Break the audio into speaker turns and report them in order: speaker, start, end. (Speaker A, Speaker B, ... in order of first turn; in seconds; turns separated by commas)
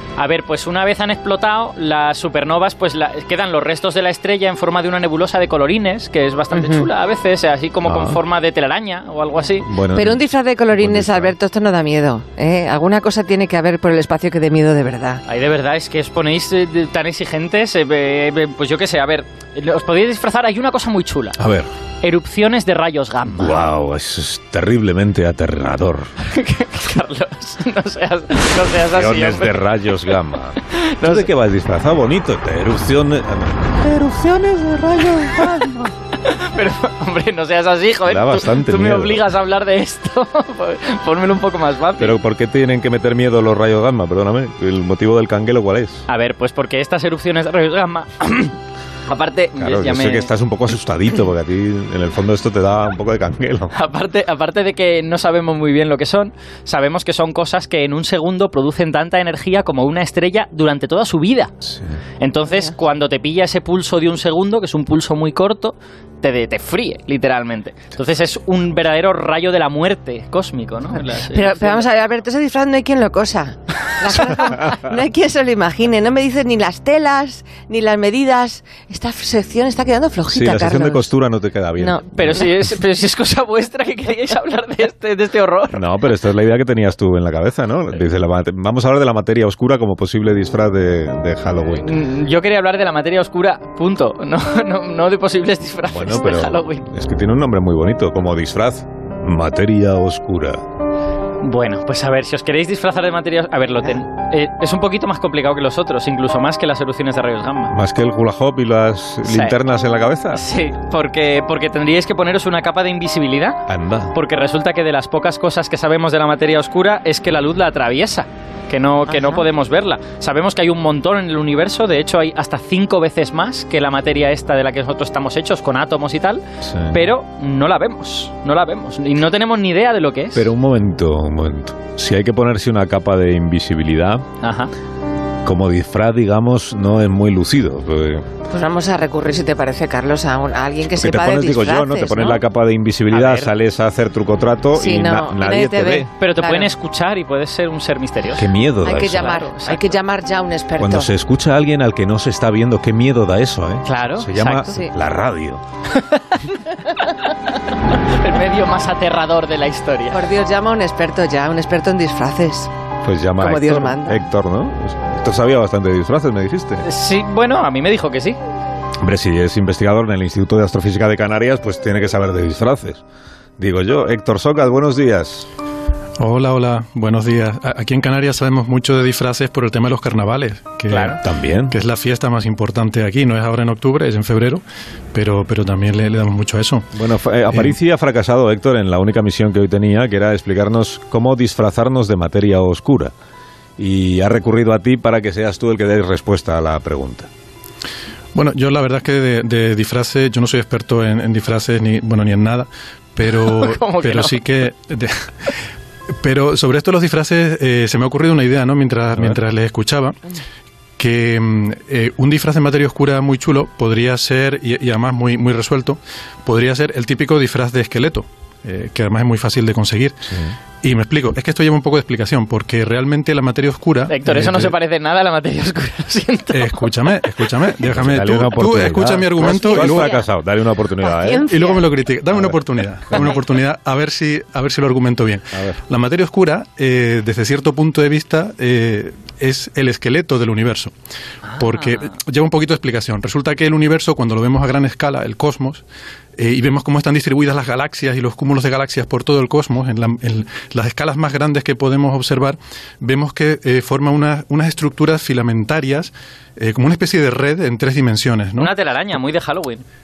Speaker A: 0.2-9.7, Speaker B: 6.5-6.9, Speaker C: 7.8-8.2, Speaker C: 9.6-11.3, Speaker B: 9.9-15.2, Speaker A: 15.2-21.4, Speaker C: 21.4-21.7, Speaker A: 22.0-23.7, Speaker C: 23.3-26.1, Speaker A: 26.2-29.7, Speaker C: 28.9-35.9, Speaker A: 30.7-31.3, Speaker A: 36.2-42.2, Speaker C: 38.0-39.2, Speaker C: 42.0-46.1, Speaker A: 46.1-50.3, Speaker C: 49.6-53.7, Speaker A: 53.7-61.5, Speaker C: 61.6-61.9, Speaker A: 62.2-71.9, Speaker B: 71.2-81.1, Speaker C: 80.3-82.5, Speaker B: 81.8-82.0, Speaker A: 82.1-85.8, Speaker C: 85.7-92.0, Speaker A: 91.8-96.8, Speaker C: 95.8-100.6, Speaker A: 101.4-107.7, Speaker C: 107.7-110.4, Speaker A: 109.2-109.6, Speaker A: 110.3-113.6, Speaker C: 113.7-114.1, Speaker A: 114.1-130.5, Speaker B: 119.1-119.4, Speaker C: 126.6-127.0, Speaker C: 130.3-134.2, Speaker A: 134.4-134.7, Speaker C: 135.4-138.3, Speaker B: 138.5-142.4, Speaker C: 140.9-146.1, Speaker A: 143.1-143.5, Speaker B: 144.7-146.7, Speaker A: 146.2-149.8, Speaker C: 148.3-149.4, Speaker B: 148.8-151.1, Speaker C: 150.8-155.6, Speaker A: 153.8-154.7, Speaker A: 155.9-157.1, Speaker A: 157.9-160.2, Speaker B: 160.1-162.7, Speaker C: 163.0-166.8, Speaker B: 163.4-164.2, Speaker A: 166.8-168.4, Speaker C: 169.0-173.0, Speaker C: 173.6-175.5, Speaker D: 176.2-186.9, Speaker A: 180.9-181.2, Speaker C: 181.2-181.8, Speaker C: 186.9-193.1, Speaker C: 193.8-197.3, Speaker D: 198.3-205.6, Speaker A: 203.3-204.4, Speaker D: 206.2-210.2, Speaker D: 211.0-220.2, Speaker C: 220.3-220.5, Speaker D: 220.8-224.8, Speaker A: 224.1-226.9, Speaker D: 226.5-230.1, Speaker C: 227.9-231.5, Speaker B: 229.4-230.2, Speaker B: 231.0-231.9, Speaker D: 231.4-240.9, Speaker C: 232.3-233.4, Speaker C: 235.5-235.8, Speaker A: 241.5-242.1, Speaker D: 241.5-245.8, Speaker D: 246.4-258.7, Speaker A: 258.6-259.8